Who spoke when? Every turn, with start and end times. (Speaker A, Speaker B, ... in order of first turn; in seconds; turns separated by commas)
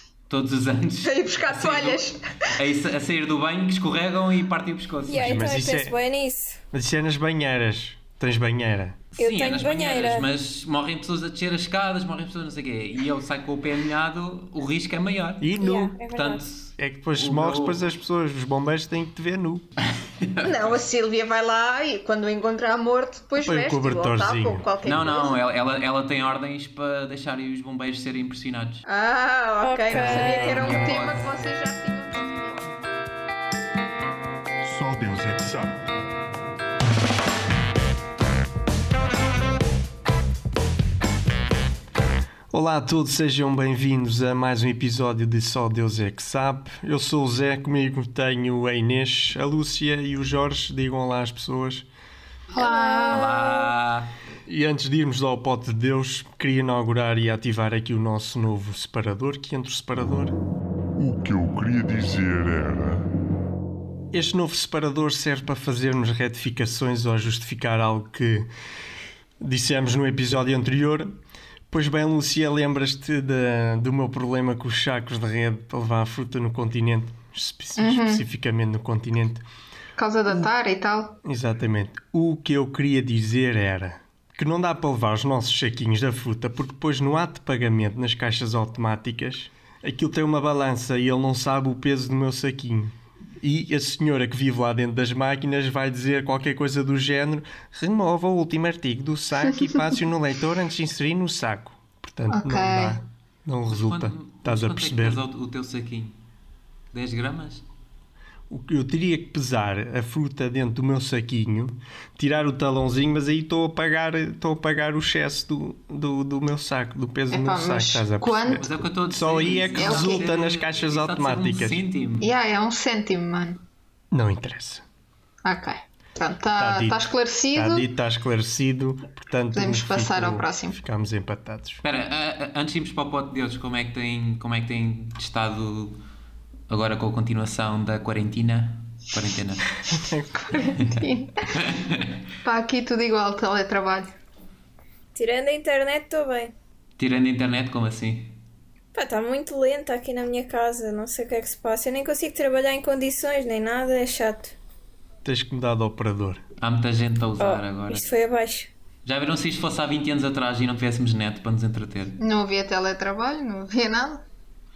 Speaker A: 0.3-5.4, Speaker B: 1.0-2.2, Speaker C: 5.1-6.6, Speaker D: 5.1-6.0, Speaker D: 6.7-9.0, Speaker A: 9.1-15.5, Speaker C: 9.2-10.3, Speaker D: 15.4-16.0, Speaker C: 15.6-16.4, Speaker A: 16.1-17.9, Speaker D: 16.8-19.6, Speaker A: 20.0-20.8, Speaker B: 20.4-25.4, Speaker D: 23.4-24.7, Speaker A: 24.8-28.8, Speaker B: 28.9-32.6, Speaker C: 29.6-30.9, Speaker A: 29.9-31.5, Speaker E: 34.6-35.9, Speaker D: 42.5-51.9, Speaker B: 52.5-53.5, Speaker C: 52.5-53.7, Speaker A: 53.1-54.1, Speaker D: 54.5-60.4, Speaker E: 61.0-63.0, Speaker D: 64.1-68.5, Speaker D: 69.4-71.2, Speaker D: 71.7-79.4, Speaker B: 77.8-78.2, Speaker B: 80.0-81.2, Speaker D: 81.2-105.2, Speaker B: 102.3-103.0, Speaker A: 103.7-106.2, Speaker A: 106.9-107.7, Speaker D: 108.5-121.8, Speaker B: 117.3-118.7, Speaker A: 118.5-122.3, Speaker B: 119.7-120.3, Speaker B: 122.2-123.6, Speaker D: 124.1-124.8, Speaker B: 125.5-127.9, Speaker D: 126.6-127.0, Speaker D: 127.5-131.8, Speaker B: 129.5-130.8, Speaker A: 131.8-136.0, Speaker A: 136.7-139.8, Speaker B: 139.9-141.5, Speaker D: 140.0-140.3, Speaker A: 141.5-142.1, Speaker B: 142.4-144.1, Speaker C: 145.2-146.5, Speaker A: 147.0-148.3, Speaker C: 148.9-154.6, Speaker D: 155.2-156.4, Speaker A: 156.6-158.1, Speaker C: 157.4-158.7, Speaker A: 159.1-162.2, Speaker B: 162.2-164.2